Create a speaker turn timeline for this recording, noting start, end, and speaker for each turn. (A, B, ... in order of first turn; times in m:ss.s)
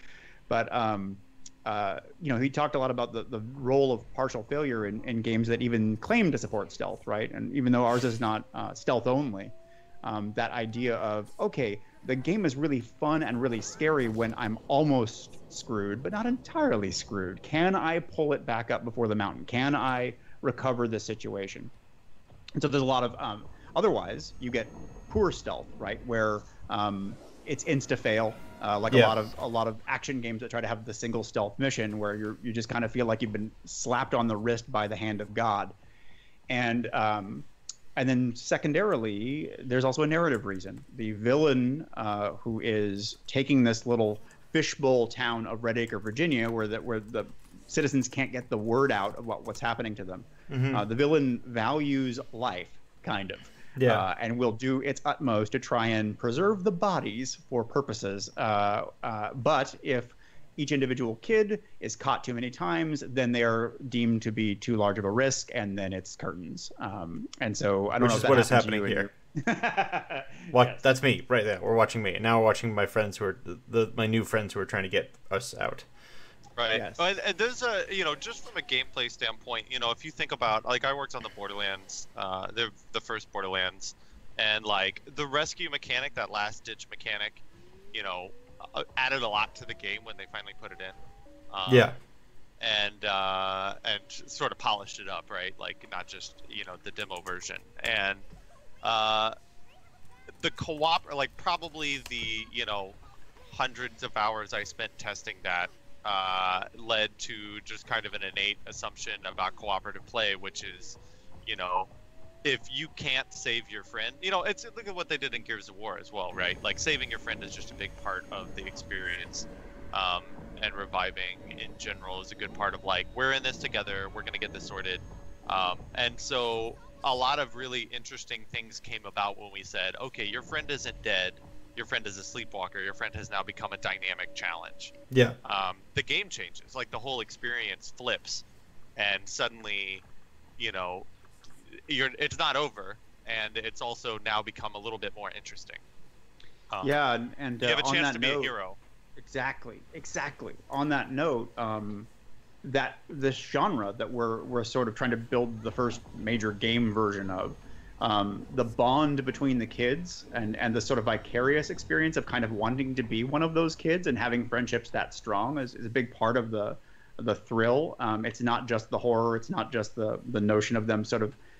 0:00.5-0:21.7 A
0:22.6-0:35.8 A
0:28.9-0:29.2 B
0:36.5-1:10.8 A
0:50.5-0:50.8 B
0:53.8-0:54.1 B
1:08.0-1:09.1 B
1:10.5-1:15.8 B
1:16.6-1:31.0 C
1:16.7-1:17.0 A
1:31.5-1:31.9 C
1:31.7-1:32.0 B
1:32.6-1:38.3 C
1:38.8-1:39.4 C
1:40.4-1:51.9 C
1:52.4-2:18.4 C
2:15.1-2:15.4 B
2:19.0-2:20.0 C
2:20.6-2:21.1 C
2:21.7-2:25.8 C
2:26.7-2:27.0 C
2:26.8-2:28.5 A
2:27.6-2:28.8 C
2:29.2-2:32.1 A
2:32.6-2:51.4 A